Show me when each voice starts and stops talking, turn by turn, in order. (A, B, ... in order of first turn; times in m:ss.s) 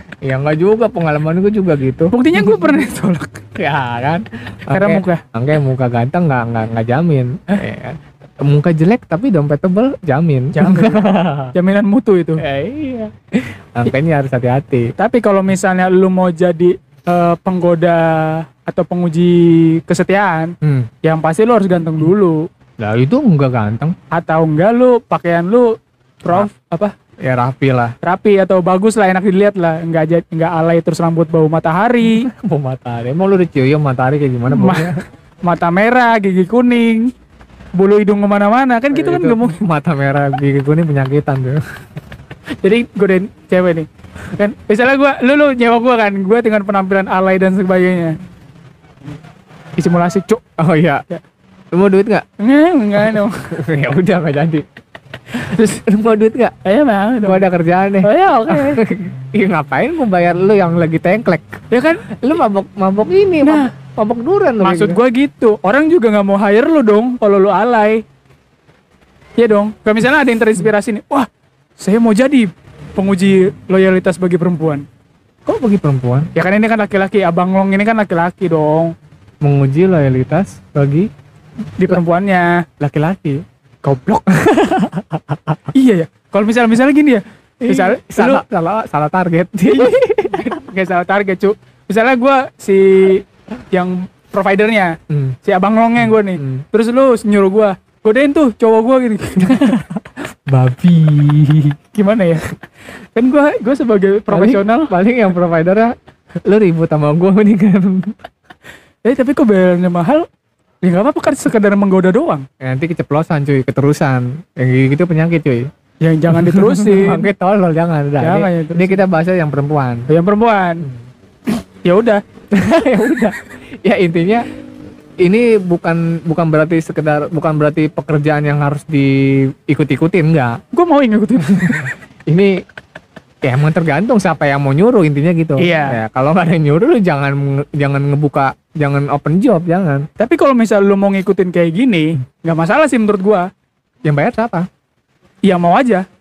0:00.2-0:02.8 A
0:02.1-0:03.4 B
0:03.6-0:11.5 A
0:04.7-0:05.2 B
0:10.5-0:12.4 B
0:12.4-0:14.9 A
0:15.0-0:22.4 B
0:20.6-0:20.9 A
0:22.8-0:23.9 A
0:24.1-0:25.7 B
0:26.2-0:26.9 B
0:27.2-0:27.9 A
0:28.0-0:32.2 B
0:32.0-0:35.0 A
0:34.5-0:37.1 B
0:37.8-0:39.6 B
0:38.9-0:41.6 A
0:42.6-0:48.2 B
0:49.8-0:50.4 B
0:50.6-0:51.0 A
0:51.7-0:52.2 A
0:52.4-0:53.5 B
0:53.0-0:54.6 A
0:55.3-0:56.5 A
0:56.6-0:57.4 B
0:57.2-1:05.0 A
0:58.0-0:58.8 B
1:01.7-1:02.0 B
1:03.4-1:03.7 B
1:04.6-1:08.0 B
1:09.4-1:14.8 B
1:15.4-1:16.3 A
1:16.3-1:18.9 B
1:19.4-1:21.1 A
1:21.8-1:22.6 B
1:22.8-1:23.4 A
1:23.8-1:24.2 B
1:24.3-1:25.6 A
1:25.7-1:28.4 B
1:27.6-1:30.6 A
1:29.7-1:39.8 B
1:35.1-1:35.4 A
1:36.0-1:36.6 A
1:39.4-1:41.7 A
1:41.9-1:42.5 B
1:43.1-1:44.9 B
1:44.3-1:45.9 A
1:46.4-1:48.2 A
1:49.0-1:50.3 B
1:50.8-1:52.4 B
1:52.6-1:55.7 A
1:56.0-1:57.3 B
1:56.3-2:00.1 A
1:58.2-1:59.0 B
2:00.1-2:00.8 B
2:01.5-2:02.2 B
2:02.5-2:04.5 A
2:05.2-2:10.6 A
2:10.7-2:11.9 B
2:11.6-2:12.5 A
2:13.4-2:20.1 A
2:15.6-2:16.0 B
2:20.2-2:23.4 B
2:24.0-2:24.6 A
2:25.5-2:26.0 B